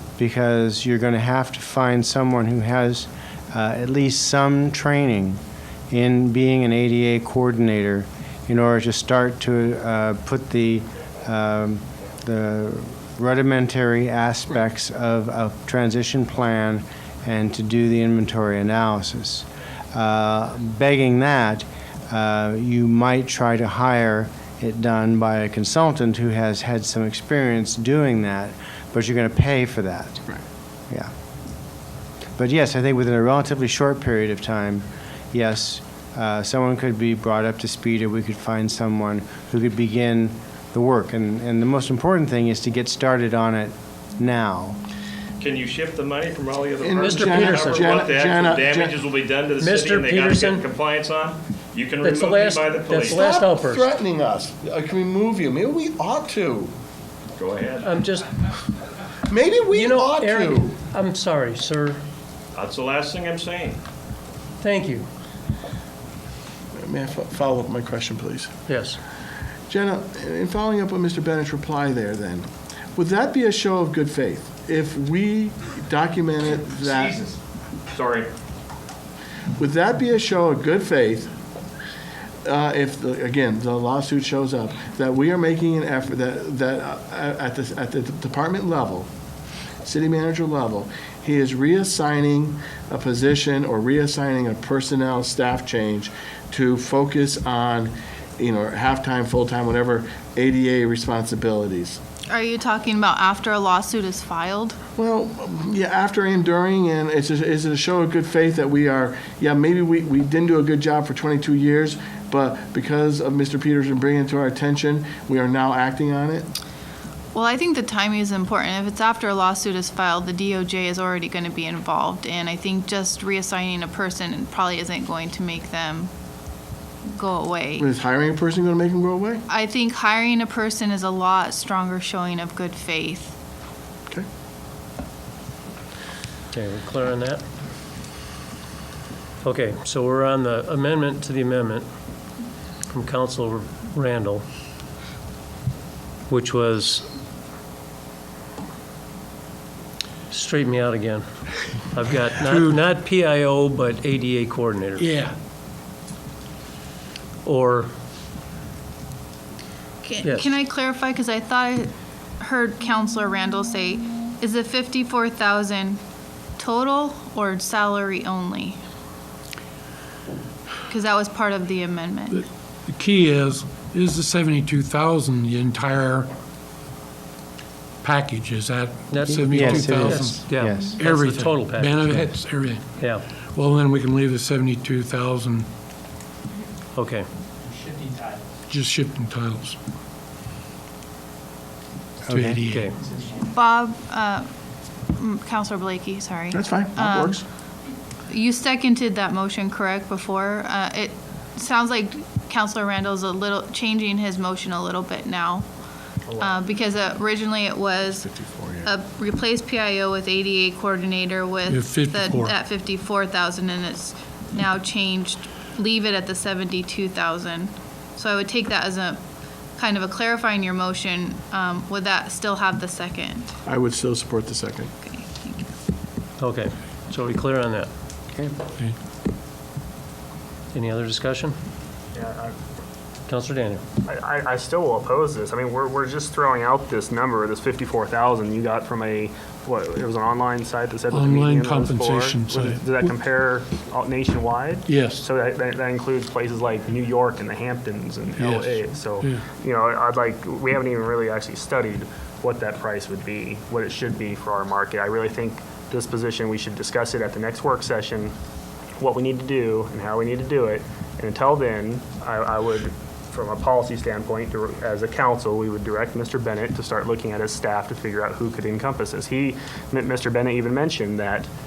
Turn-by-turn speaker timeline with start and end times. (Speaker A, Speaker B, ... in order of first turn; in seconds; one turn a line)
Speaker A: 0.2-5.4
Speaker A: 5.9-30.3
Speaker A: 32.4-44.8
Speaker B: 45.4-53.2
Speaker C: 46.8-49.0
Speaker D: 47.0-48.0
Speaker D: 49.6-50.6
Speaker D: 52.0-53.9
Speaker C: 53.0-56.7
Speaker B: 57.4-57.9
Speaker D: 57.8-58.3
Speaker C: 59.3-60.7
Speaker D: 59.7-62.0
Speaker B: 62.5-63.8
Speaker D: 64.6-65.1
Speaker C: 66.8-68.5
Speaker D: 68.7-69.0
Speaker C: 69.7-77.3
Speaker B: 76.8-77.3
Speaker B: 77.9-78.3
Speaker C: 79.6-81.3
Speaker C: 82.5-89.1
Speaker C: 89.8-102.0
Speaker E: 102.3-104.8
Speaker C: 105.0-116.5
Speaker E: 117.3-126.1
Speaker E: 127.1-127.9
Speaker C: 127.8-129.4
Speaker E: 129.5-133.3
Speaker D: 136.5-137.4
Speaker D: 139.4-141.8
Speaker D: 142.9-144.4
Speaker D: 146.3-147.1
Speaker D: 150.3-151.2
Speaker D: 151.9-155.1
Speaker F: 152.4-152.8
Speaker F: 155.0-155.3
Speaker D: 157.4-157.9
Speaker E: 160.0-166.0
Speaker D: 160.2-160.5
Speaker E: 166.6-168.8
Speaker E: 170.9-172.4
Speaker F: 172.3-176.3
Speaker F: 178.0-180.4
Speaker D: 179.1-182.3
Speaker A: 179.3-181.0
Speaker F: 181.0-182.9
Speaker D: 183.0-183.2
Speaker F: 183.5-185.7
Speaker D: 187.0-187.2
Speaker F: 188.7-189.8
Speaker A: 192.3-192.6
Speaker F: 192.3-192.9
Speaker D: 192.7-193.0
Speaker E: 193.4-194.5
Speaker E: 195.2-197.4
Speaker C: 196.5-197.4
Speaker E: 198.3-205.7
Speaker G: 206.3-206.6
Speaker E: 206.4-208.3
Speaker C: 208.3-208.9
Speaker E: 208.8-219.2
Speaker F: 211.7-212.6
Speaker E: 219.8-223.5
Speaker C: 223.7-224.9
Speaker E: 225.0-225.7
Speaker D: 226.4-227.9
Speaker D: 230.7-231.6
Speaker G: 232.1-232.5
Speaker D: 233.3-233.8
Speaker G: 234.0-258.3
Speaker F: 241.1-243.2
Speaker F: 244.9-245.2
Speaker F: 248.4-249.4
Speaker G: 259.0-271.5